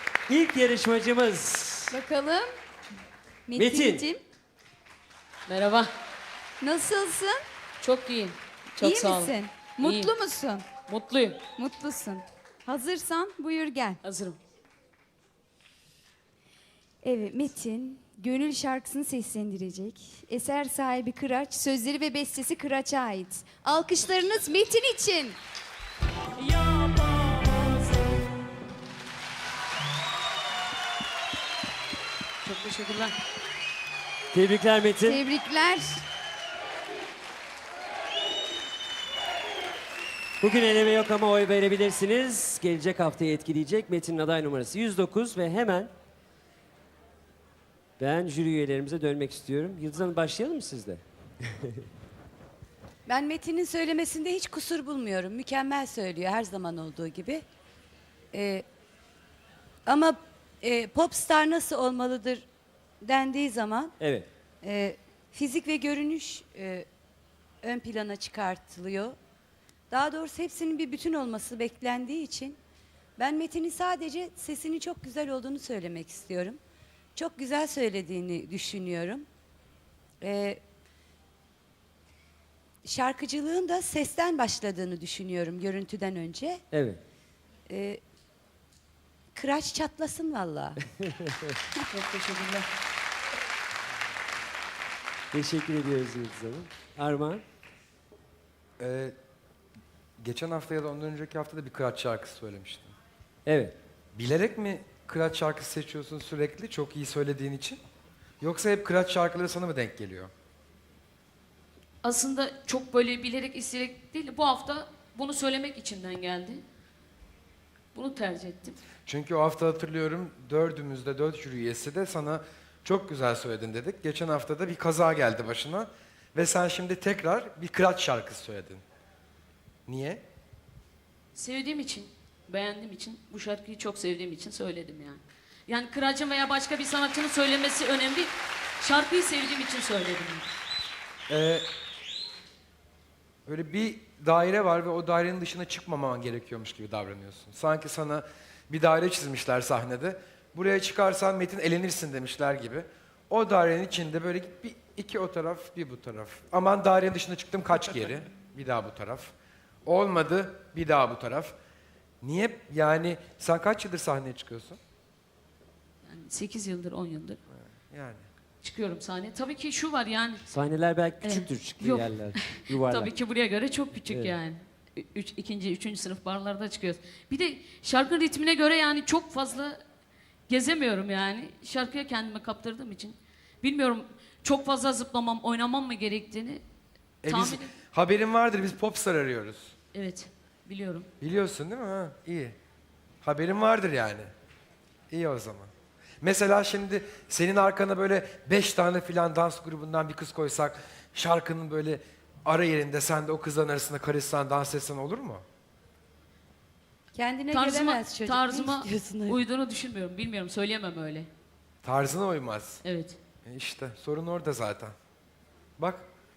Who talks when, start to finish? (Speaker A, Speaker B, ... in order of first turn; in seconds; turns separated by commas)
Speaker A: 0.3-2.0, Speaker B: 1.9-2.5, Speaker B: 3.5-4.2, Speaker A: 3.6-4.0, Speaker C: 5.5-5.9, Speaker B: 6.6-7.4, Speaker C: 7.8-10.1, Speaker B: 8.8-10.7, Speaker C: 10.9-11.4, Speaker B: 11.6-14.0, Speaker C: 14.0-14.4, Speaker B: 17.0-25.4, Speaker C: 26.4-27.9, Speaker C: 32.4-33.1, Speaker A: 34.3-35.2, Speaker B: 35.0-36.0, Speaker A: 40.4-45.9, Speaker A: 48.0-51.0, Speaker D: 53.1-57.5, Speaker D: 58.3-58.6, Speaker D: 59.9-62.5, Speaker D: 63.0-63.9, Speaker A: 64.0-64.3, Speaker D: 64.6-66.9, Speaker D: 67.6-69.2, Speaker D: 69.9-72.6, Speaker D: 73.2-76.6, Speaker D: 77.2-79.3, Speaker D: 80.2-80.6, Speaker D: 82.8-86.6, Speaker A: 86.7-87.0, Speaker D: 87.7-88.0, Speaker D: 89.3-90.8, Speaker C: 91.9-92.7, Speaker A: 95.3-97.4, Speaker E: 98.8-99.1, Speaker E: 100.2-102.9, Speaker A: 103.5-103.8, Speaker E: 104.2-107.8, Speaker E: 108.4-110.3, Speaker C: 112.0-116.6, Speaker C: 117.9-118.8, Speaker E: 119.1-128.8, Speaker E: 129.9-130.2, Speaker C: 131.3-140.5, Speaker E: 141.3-141.7, Speaker E: 143.5-159.3, Speaker E: 159.8-161.6, Speaker E: 162.2-164.8, Speaker C: 166.1-167.4, Speaker E: 167.8-168.2, Speaker C: 168.6-170.5, Speaker A: 170.5-173.1, Speaker C: 171.2-179.8, Speaker A: 174.1-174.3, Speaker C: 180.5-186.6, Speaker E: 187.2-189.7, Speaker C: 187.3-187.7, Speaker C: 189.9-191.1, Speaker E: 191.2-192.6, Speaker E: 193.2-194.3, Speaker E: 195.1-195.7, Speaker E: 196.2-205.4, Speaker D: 207.1-209.4, Speaker C: 207.5-211.3, Speaker E: 211.8-212.8, Speaker C: 212.8-213.2, Speaker E: 213.5-214.9, Speaker E: 215.8-216.1